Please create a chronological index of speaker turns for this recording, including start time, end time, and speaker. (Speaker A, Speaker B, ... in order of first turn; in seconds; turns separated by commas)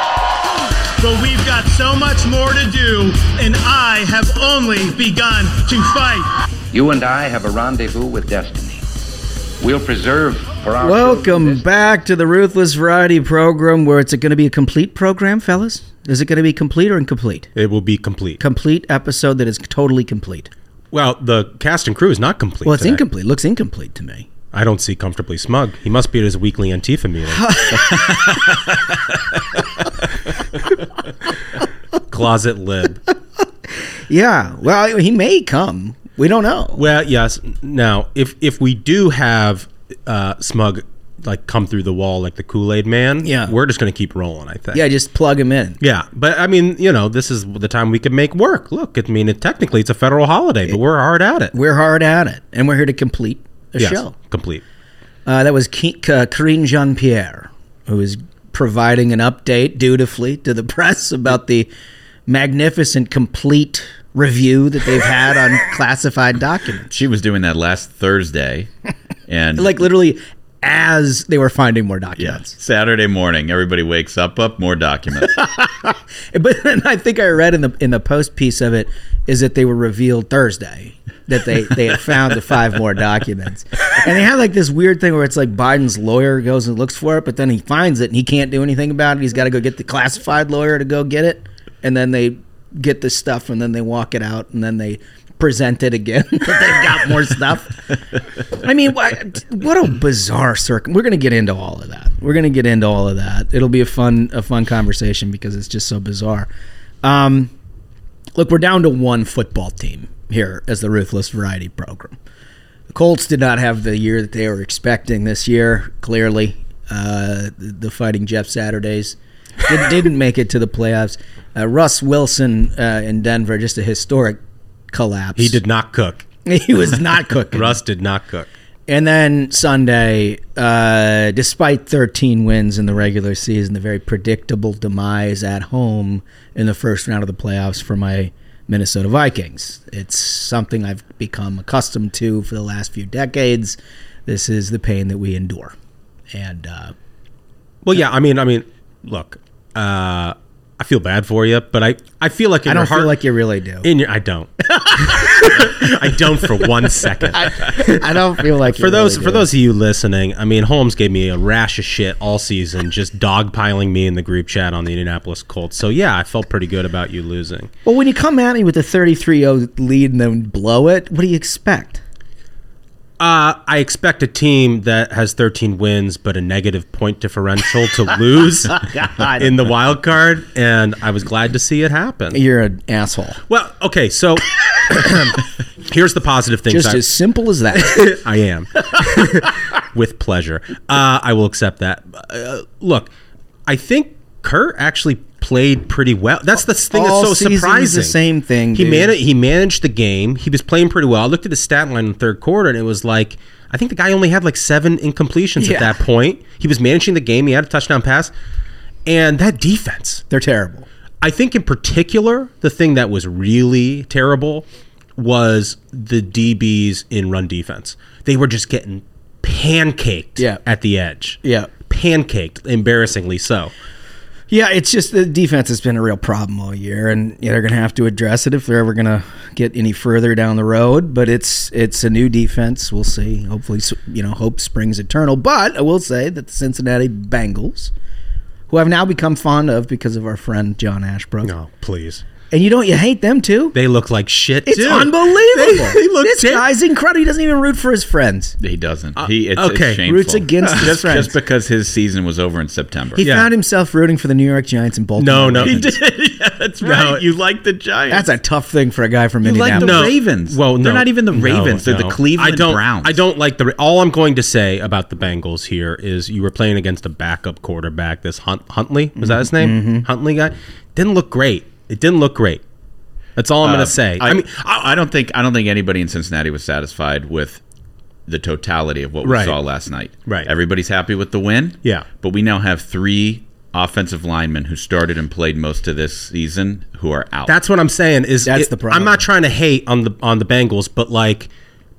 Speaker A: 1.0-6.3, Speaker B: 6.7-8.9, Speaker B: 9.6-11.8, Speaker C: 10.8-17.5, Speaker D: 17.6-18.4, Speaker C: 18.4-20.5, Speaker D: 20.9-23.0, Speaker C: 22.6-24.3, Speaker D: 24.5-27.6, Speaker C: 27.3-28.4, Speaker D: 32.1-33.0, Speaker C: 34.1-36.8, Speaker D: 36.8-44.8, Speaker C: 43.2-43.5, Speaker C: 44.7-45.8, Speaker D: 45.8-51.5, Speaker C: 51.5-54.1, Speaker D: 53.8-54.6, Speaker C: 55.3-61.7, Speaker C: 62.3-66.9, Speaker E: 66.9-68.7, Speaker E: 69.3-69.8, Speaker C: 69.6-72.6, Speaker E: 72.2-75.4, Speaker C: 75.4-97.8, Speaker C: 98.5-106.5, Speaker C: 107.0-107.5, Speaker C: 108.4-112.2, Speaker C: 112.9-124.4, Speaker C: 124.9-125.6, Speaker D: 125.4-126.2, Speaker C: 126.5-127.8, Speaker D: 127.5-128.5, Speaker C: 128.9-145.8, Speaker C: 146.3-146.9, Speaker D: 147.8-153.2, Speaker C: 152.7-153.9, Speaker D: 153.8-158.1, Speaker C: 154.7-155.9, Speaker C: 157.3-159.5, Speaker D: 158.6-167.7, Speaker C: 167.8-172.0, Speaker D: 173.2-182.4, Speaker C: 178.8-179.5, Speaker C: 182.3-183.4, Speaker D: 183.5-187.1, Speaker C: 186.7-188.1, Speaker D: 187.8-193.1, Speaker D: 193.7-198.2, Speaker C: 196.9-199.1, Speaker D: 198.7-208.3, Speaker C: 205.6-205.9, Speaker D: 209.1-210.2, Speaker C: 210.3-210.9, Speaker D: 211.2-214.7, Speaker D: 215.2-223.7, Speaker C: 221.4-221.7, Speaker C: 224.5-237.9, Speaker C: 238.7-241.5, Speaker D: 241.4-242.2, Speaker C: 242.5-243.8, Speaker D: 243.7-246.7, Speaker C: 244.7-248.6, Speaker E: 248.6-253.2, Speaker D: 249.2-250.0, Speaker C: 250.1-251.3, Speaker C: 253.2-255.9, Speaker D: 253.2-253.5, Speaker D: 255.2-255.9, Speaker E: 255.6-258.3, Speaker D: 256.8-257.2, Speaker C: 258.1-260.1, Speaker E: 259.4-263.2, Speaker D: 259.8-272.6, Speaker C: 269.2-270.1, Speaker D: 273.4-275.0, Speaker E: 273.6-277.6, Speaker E: 278.3-287.6, Speaker D: 279.2-279.6, Speaker D: 287.5-291.5, Speaker C: 288.4-289.2